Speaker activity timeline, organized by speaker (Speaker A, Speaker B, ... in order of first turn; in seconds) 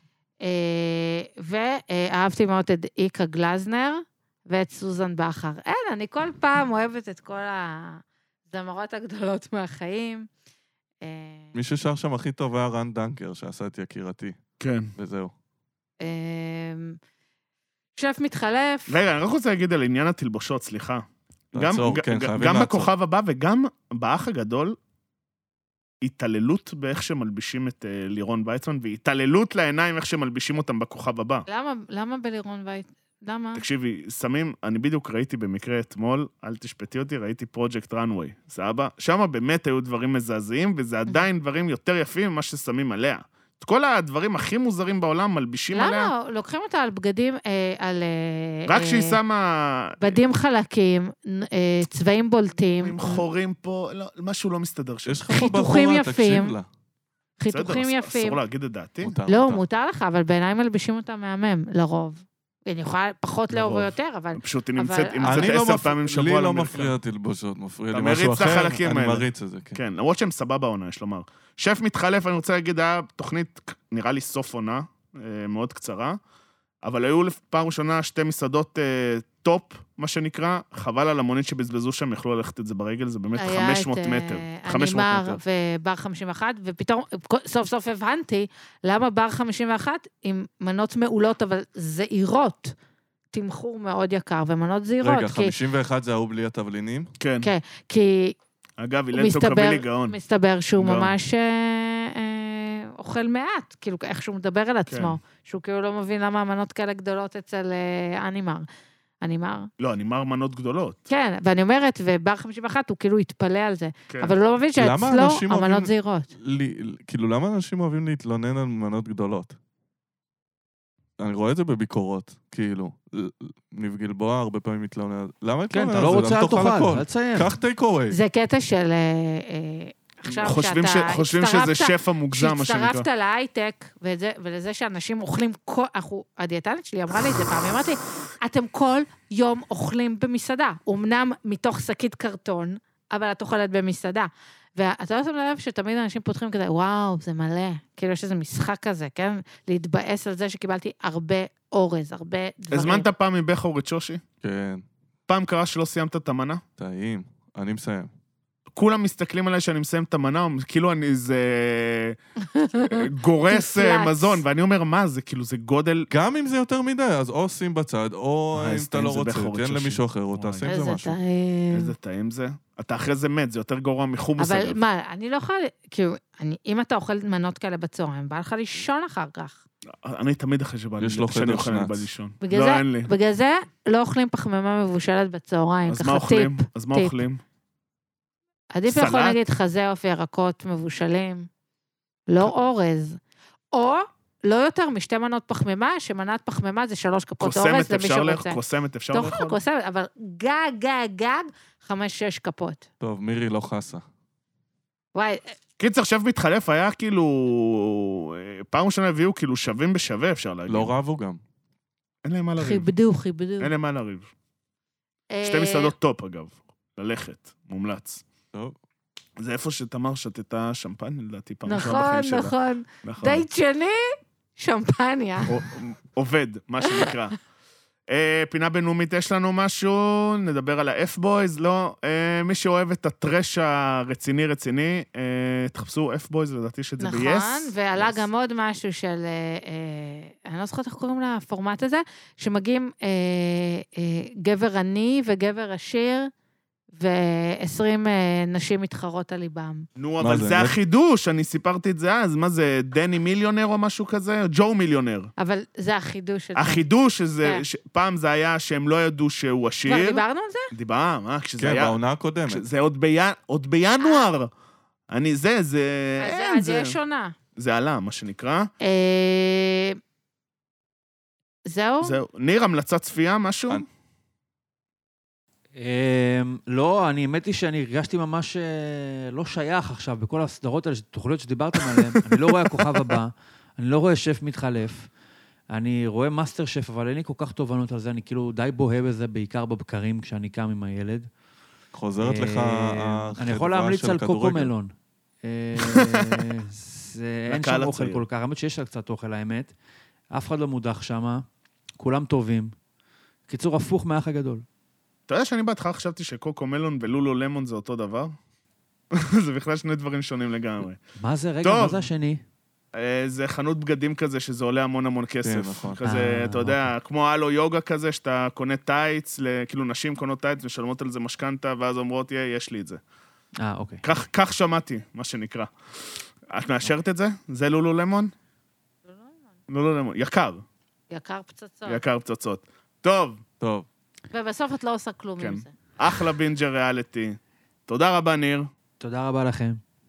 Speaker A: 0.4-10.3, 11.0-11.6, 16.0-17.0, 18.0-18.9, 31.5-33.6, 45.7-49.2, 50.0-53.2, 55.3-56.5, 57.4-58.4, 59.3-65.5, 83.4-92.8, 93.3-95.5, 97.4-98.4, 99.1-108.7, 109.2-109.7, 111.1-116.3, 128.1-153.1, 162.5-164.4, 170.6-171.9, 174.4-179.6, 182.4-187.1, 188.7-191.5, 192.3-193.2, 193.7-198.6, 199.1-202.9, 205.2-205.6, 212.6-213.7, 215.3-215.9, 221.7-225.6, 226.8-227.1, 237.0-246.3, 246.9-249.8, 255.4-256.8, 259.9-260.7, 266.2-267.3, 268.8-270.0, 271.7-272.2, 329.1-329.4, 331.1-332.0, 334.3-335.7
Speaker B: 11.5-14.4, 15.0-15.3, 21.5-22.9, 55.1-56.7, 59.0-59.6, 65.3-69.8, 95.0-97.1, 114.8-119.6, 121.2-128.2, 154.4-154.8, 156.8-158.1, 166.1-171.2, 181.0-182.1, 203.0-204.0, 210.7-211.4, 250.2-250.8, 261.6-262.6, 291.9-294.7, 315.4-316.0, 333.6-333.9
Speaker C: 14.6-14.9, 18.9-21.0, 21.6-24.8, 26.0-31.5, 33.6-46.1, 48.7-50.2, 52.8-55.2, 57.5-59.2, 63.5-67.0, 67.9-76.2, 76.8-85.4, 97.2-97.5, 98.8-100.2, 100.8-101.1, 104.9-105.2, 109.8-111.0, 114.1-114.3, 130.3-133.1, 152.7-154.2, 155.3-156.6, 158.7-162.2, 162.9-166.1, 168.5-170.7, 171.7-174.8, 179.9-183.1, 185.9-187.4, 188.9-189.4, 197.4-199.6, 205.8-210.9, 212.2-212.9, 213.6-214.3, 215.4-218.2, 219.4-222.5, 223.0-223.4, 225.5-227.4, 228.1-238.2, 250.0-255.3, 256.6-262.0, 262.5-264.5, 265.1-267.0, 267.6-268.7, 272.0-273.9, 295.8-296.4, 297.5-298.2, 305.3-308.3, 309.1-311.0, 311.6-312.1, 312.9-323.0, 324.0-328.3, 329.7-330.6, 331.9-333.4, 335.4-338.7
Speaker D: 125.7-127.5, 275.8-285.1, 285.7-291.3, 292.2-299.7, 300.3-301.4, 302.0-302.7, 303.5-304.6, 311.2-312.4, 316.0-316.9, 323.6-324.1, 339.0-339.8